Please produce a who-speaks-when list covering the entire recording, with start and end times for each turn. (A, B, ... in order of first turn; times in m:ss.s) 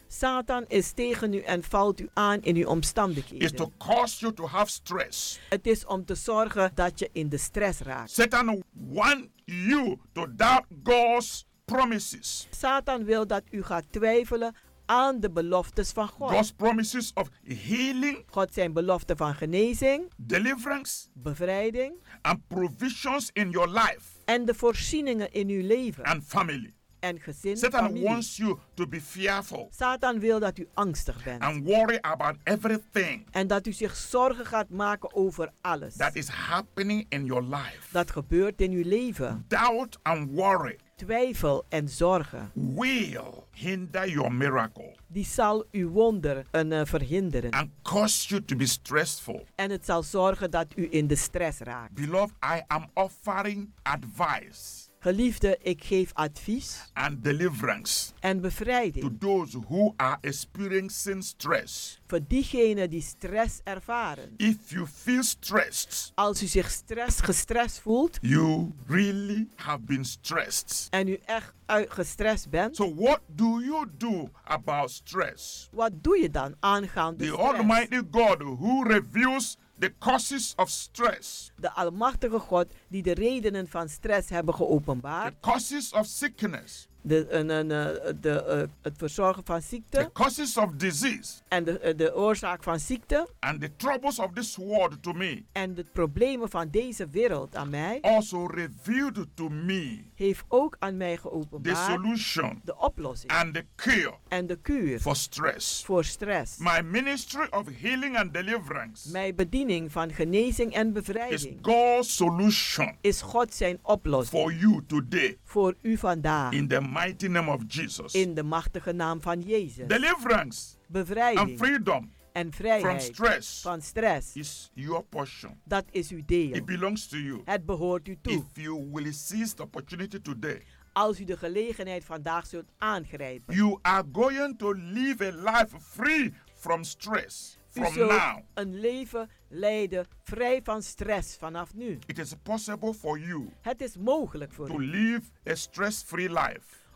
0:00.1-0:03.7 A
0:03.4-0:05.4 B
0:05.5-0:08.1 A
0:08.1-0:12.5 B
0:12.5-0:16.4 A
0:16.2-0:18.2 B
0:18.3-0:20.1 A
0:20.2-0:21.1 B
0:21.2-0:22.0 A
0:22.2-0:24.2 B
0:24.3-0:26.1 A
0:26.0-0:26.7 B
0:27.0-0:28.2 A
0:27.6-0:29.7 B
0:29.7-0:31.5 A
0:31.4-0:33.3 B
0:33.3-0:36.1 A
0:36.0-0:38.0 B
0:37.9-0:39.4 A
0:39.3-0:40.8 B
0:41.0-0:42.5 A
0:42.5-0:45.0 B
0:45.1-0:47.6 A
0:47.5-0:49.4 B
0:49.6-0:51.9 A
0:51.9-0:54.9 B
0:55.0-0:56.9 A
0:56.9-0:58.1 B
0:58.2-0:59.1 A
0:59.0-1:02.0 B
1:02.1-1:04.4 A
1:04.4-1:06.1 B
1:06.2-1:08.2 A
1:08.2-1:10.9 B
1:10.9-1:12.8 A
1:12.7-1:15.7 B
1:15.7-1:17.9 A
1:17.2-1:21.5 B
1:21.6-1:25.3 A
1:25.2-1:26.8 B
1:27.0-1:30.1 A
1:29.9-1:31.4 B
1:31.5-1:33.3 A
1:33.4-1:35.4 B
1:35.5-1:38.0 A
1:38.0-1:40.1 B
1:40.2-1:42.0 A
1:41.6-1:42.6 B
1:42.6-1:43.4 A
1:43.3-1:44.2 B
1:44.3-1:45.0 A
1:45.0-1:45.8 B
1:45.8-1:46.6 A
1:46.6-1:49.1 B
1:49.0-1:51.6 A
1:51.3-1:53.0 B
1:53.0-1:54.3 A
1:54.3-1:55.4 B
1:55.5-1:56.6 A
1:56.5-1:58.2 B
1:58.1-2:00.0 A
1:59.8-2:00.8 B
2:00.9-2:01.6 A
2:01.3-2:02.1 B
2:02.3-2:04.4 A
2:02.8-2:03.7 B
2:04.3-2:05.6 B
2:05.7-2:06.7 A
2:06.5-2:07.5 B
2:07.4-2:08.4 A
2:08.3-2:10.6 B
2:10.9-2:13.6 A
2:13.5-2:18.4 B
2:17.7-2:22.0 A
2:22.0-2:23.6 B
2:23.6-2:24.8 A
2:24.6-2:26.8 B